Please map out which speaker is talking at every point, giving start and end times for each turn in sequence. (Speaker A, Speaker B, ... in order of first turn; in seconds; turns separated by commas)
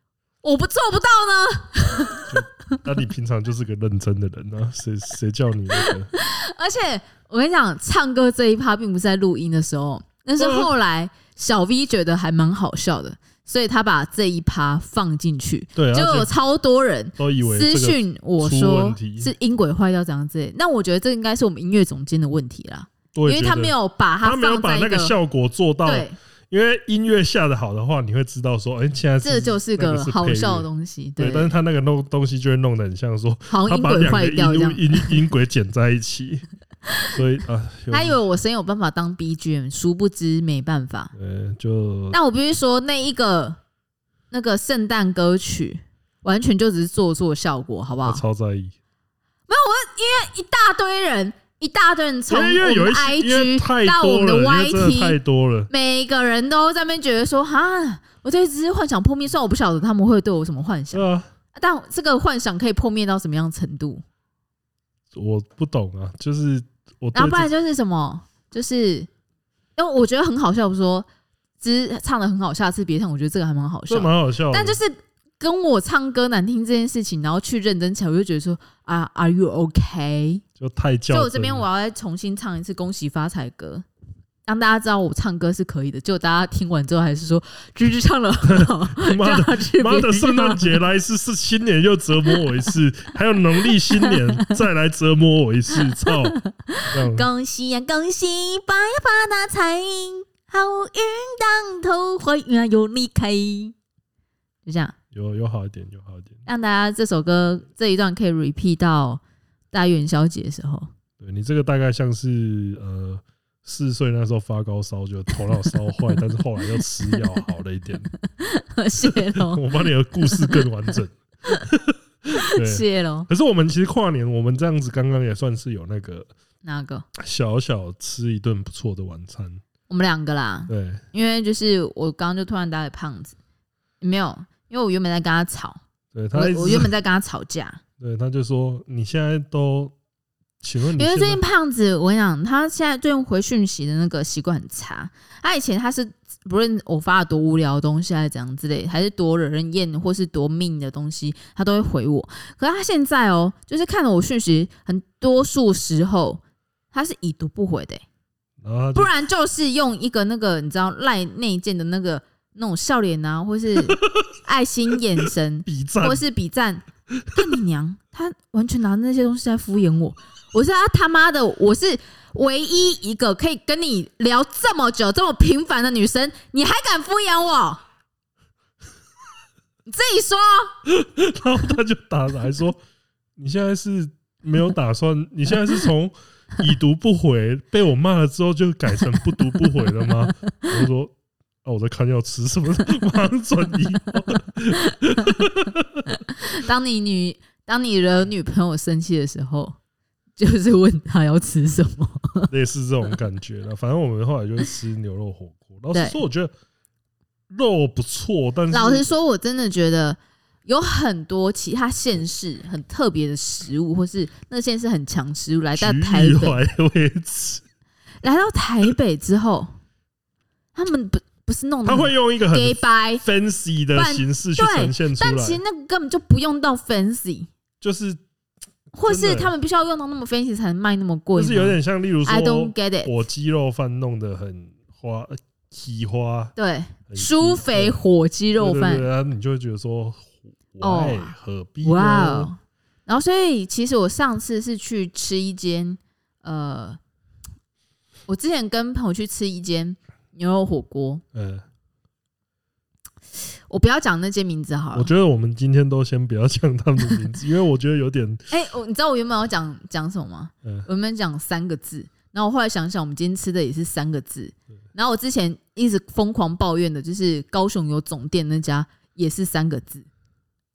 Speaker A: 0.4-2.4, Speaker B: 2.3-6.1, Speaker A: 5.8-25.1, Speaker B: 10.4-10.7, Speaker B: 15.8-16.3, Speaker B: 17.2-19.3, Speaker B: 23.1-30.7, Speaker A: 25.9-26.2, Speaker A: 29.2-31.5, Speaker B: 31.2-36.4, Speaker A: 33.5-35.2, Speaker B: 37.1-38.2, Speaker A: 37.9-41.1, Speaker B: 41.1-42.2, Speaker A: 42.1-43.6, Speaker A: 44.3-48.2, Speaker B: 48.0-48.7, Speaker A: 49.5-55.2, Speaker B: 52.3-55.7, Speaker A: 55.7-64.0, Speaker B: 60.9-61.3, Speaker B: 65.1-67.5, Speaker A: 67.2-69.1, Speaker A: 69.8-71.1, Speaker A: 71.6-80.4, Speaker B: 73.9-74.8, Speaker B: 80.6-81.7, Speaker A: 81.1-83.8, Speaker A: 84.5-90.8, Speaker B: 88.4-97.3, Speaker A: 94.0-94.5, Speaker A: 95.7-103.7, Speaker A: 104.7-105.0, Speaker B: 105.1-106.4, Speaker A: 106.5-109.2, Speaker A: 109.7-110.9, Speaker B: 111.2-118.1, Speaker A: 118.2-119.6, Speaker B: 119.0-126.3, Speaker A: 120.3-120.7, Speaker A: 122.3-123.3, Speaker A: 126.6-127.0, Speaker B: 127.2-129.6, Speaker A: 129.9-133.4, Speaker B: 130.7-131.0, Speaker A: 134.0-135.8, Speaker B: 136.1-136.9, Speaker A: 136.3-137.8, Speaker B: 138.0-139.9, Speaker B: 140.6-141.4, Speaker A: 141.0-158.0, Speaker B: 158.6-159.1, Speaker A: 158.9-177.8, Speaker B: 165.7-166.2, Speaker A: 179.9-180.7, Speaker B: 180.9-182.8, Speaker B: 183.4-196.1, Speaker A: 196.3-199.8, Speaker A: 200.4-202.5, Speaker B: 202.5-206.5, Speaker A: 205.9-206.2, Speaker B: 207.5-209.1, Speaker A: 208.7-216.6, Speaker B: 215.8-217.6, Speaker A: 218.2-219.8, Speaker A: 220.8-223.2, Speaker B: 221.8-225.6, Speaker A: 223.9-227.5, Speaker B: 227.8-228.2, Speaker A: 228.9-233.1, Speaker B: 229.0-229.5, Speaker B: 231.4-236.5, Speaker A: 236.6-239.1, Speaker B: 237.1-238.0, Speaker B: 238.6-242.5, Speaker A: 240.8-247.0, Speaker A: 248.3-251.2, Speaker B: 251.3-251.7, Speaker A: 253.7-255.1, Speaker B: 254.9-258.4, Speaker A: 258.5-270.1